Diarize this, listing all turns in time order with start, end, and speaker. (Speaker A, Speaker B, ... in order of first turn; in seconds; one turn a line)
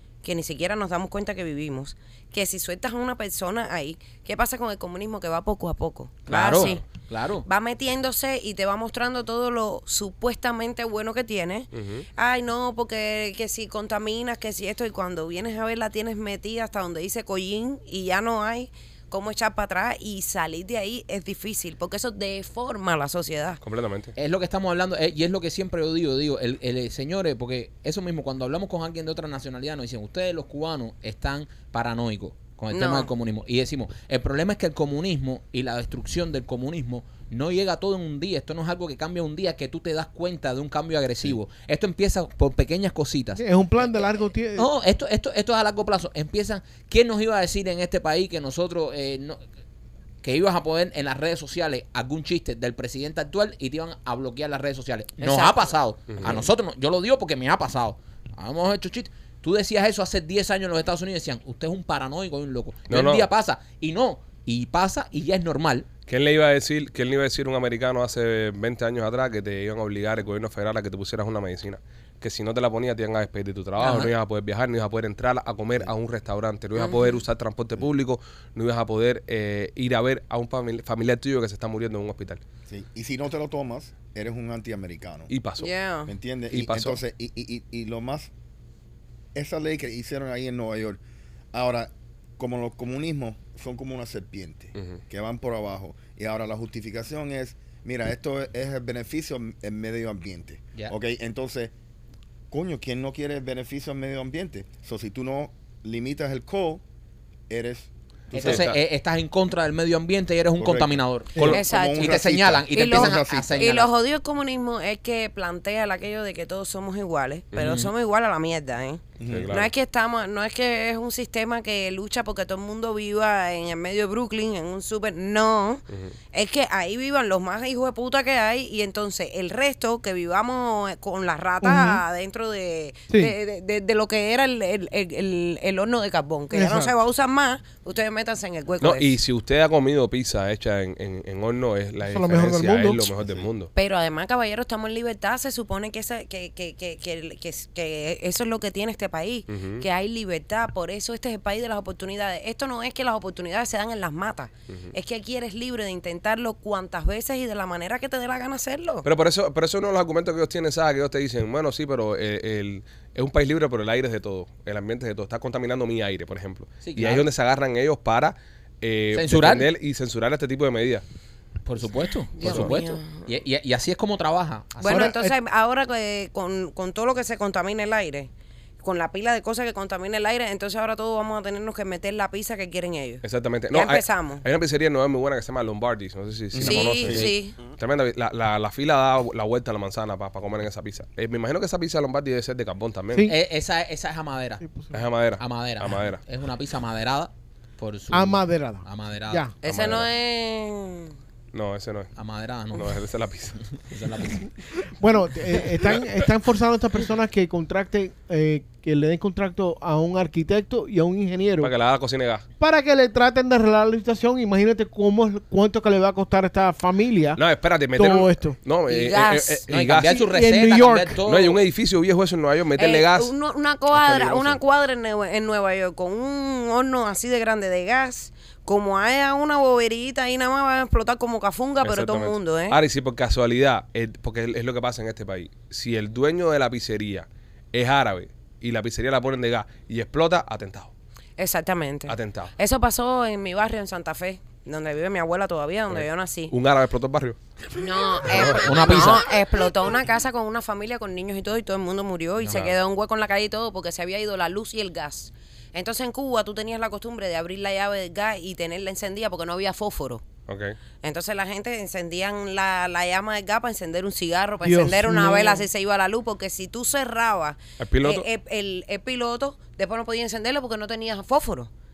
Speaker A: 0.2-6.8
Speaker B: 6.3-7.5
Speaker C: 6.5-6.8
Speaker A: 7.5-23.6
Speaker C: 11.7-12.1
Speaker C: 23.6-24.1
Speaker B: 24.2-49.4
Speaker A: 32.7-33.1
Speaker D: 43.4-44.7
Speaker B: 50.2-65.9
Speaker A: 55.2-55.7
Speaker C: 56.1-56.5
Speaker C: 62.9-63.3
Speaker C: 66.1-82.4
Speaker B: 73.8-74.1
Speaker A: 76.8-77.2
Speaker E: 82.7-85.3
Speaker C: 85.3-85.7
Speaker A: 85.6-86.1
Speaker E: 86.1-88.3
Speaker C: 86.5-87.0
Speaker E: 89.3-91.0
Speaker E: 91.5-101.7
Speaker E: 102.5-106.8
Speaker E: 107.5-108.7
Speaker B: 108.3-113.9
Speaker C: 108.4-108.8
Speaker E: 110.6-113.7
Speaker D: 111.4-111.6
Speaker A: 111.5-112.2
Speaker A: 112.7-139.2
Speaker C: 117.5-117.8
Speaker B: 117.6-117.9
Speaker E: 119.2-119.5
Speaker C: 119.3-119.7
Speaker D: 131.6-132.0
Speaker D: 136.5-136.9
Speaker C: 138.8-143.7
Speaker D: 142.1-143.1
Speaker E: 143.2-143.5
Speaker A: 143.7-159.1
Speaker C: 149.5-149.8
Speaker C: 159.0-171.0
Speaker B: 166.8-167.3
Speaker B: 169.1-169.7
Speaker B: 171.7-175.1
Speaker A: 172.3-173.2
Speaker C: 172.4-172.7
Speaker A: 174.8-178.3
Speaker D: 174.8-175.3
Speaker A: 178.8-184.4
Speaker C: 183.2-193.3
Speaker E: 186.5-187.3
Speaker A: 186.6-187.6
Speaker B: 193.3-194.7
Speaker D: 194.6-195.0
Speaker C: 194.9-196.2
Speaker B: 195.4-199.5
Speaker D: 198.1-199.5
Speaker A: 199.6-201.1
Speaker C: 199.6-200.1
Speaker C: 201.5-202.1
Speaker B: 202.2-203.0
Speaker C: 202.7-203.6
Speaker B: 203.7-204.5
Speaker D: 205.0-211.7
Speaker C: 211.6-212.4
Speaker D: 212.6-217.4
Speaker C: 217.4-220.2
Speaker D: 217.9-218.6
Speaker A: 218.9-219.6
Speaker B: 219.7-221.6
Speaker D: 220.0-221.2
Speaker C: 221.2-223.3
Speaker A: 222.8-232.8
Speaker C: 223.9-224.6
Speaker C: 231.8-240.9
Speaker A: 241.4-246.5
Speaker C: 242.1-242.5
Speaker C: 245.9-247.4
Speaker A: 247.8-260.2
Speaker C: 248.2-248.7
Speaker B: 248.3-249.2
Speaker C: 252.4-252.7
Speaker C: 260.5-260.8
Speaker A: 261.0-271.7
Speaker D: 264.6-265.6
Speaker C: 267.8-268.3